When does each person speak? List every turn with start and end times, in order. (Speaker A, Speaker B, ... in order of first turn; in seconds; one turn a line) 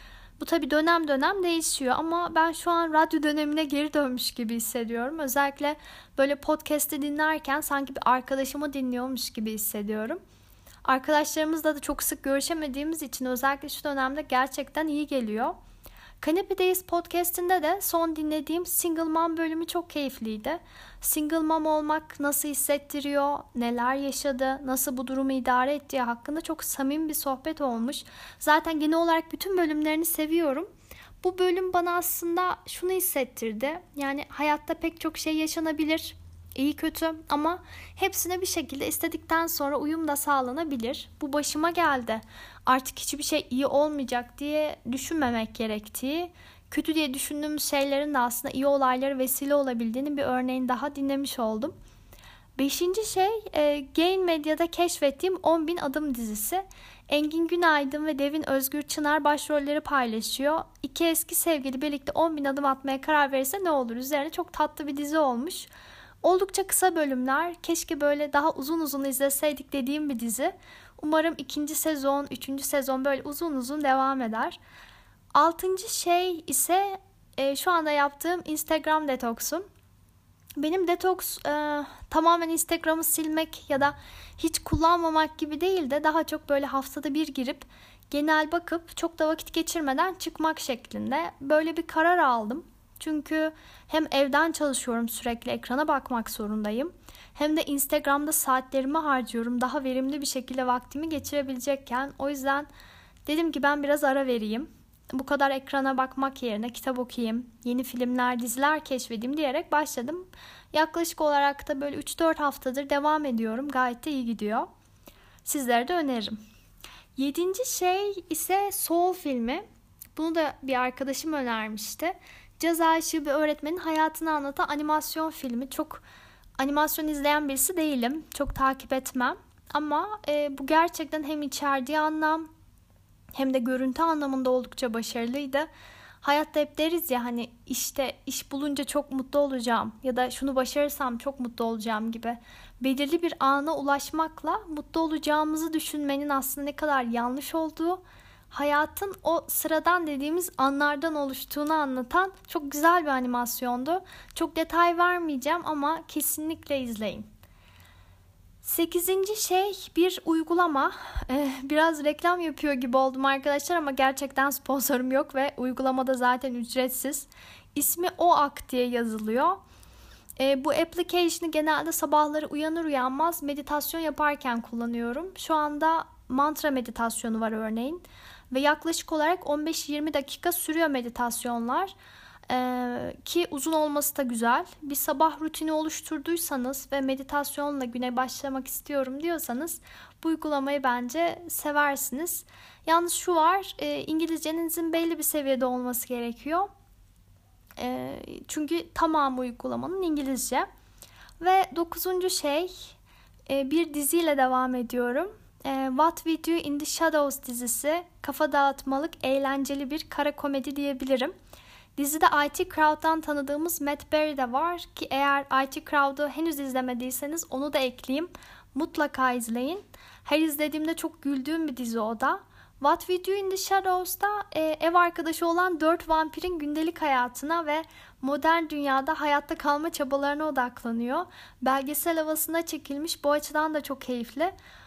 Speaker A: 0.4-10.2
Speaker A: 10.8-15.6
Speaker A: 16.2-30.7
Speaker A: 31.2-51.7
Speaker A: 52.6-65.7
Speaker A: 66.2-74.6
Speaker A: 75.3-79.7
Speaker A: 80.6-102.7
Speaker A: 103.2-114.7
Speaker A: 115.4-116.4
Speaker A: 117.2-119.6
Speaker A: 120.1-126.0
Speaker A: 126.6-132.5
Speaker A: 133.3-135.7
Speaker A: 136.2-157.3
Speaker A: 158.6-169.6
Speaker A: 170.4-181.9
Speaker A: 182.5-196.7
Speaker A: 197.8-200.7
Speaker A: 201.4-202.9
Speaker A: 203.5-211.3
Speaker A: 211.9-234.5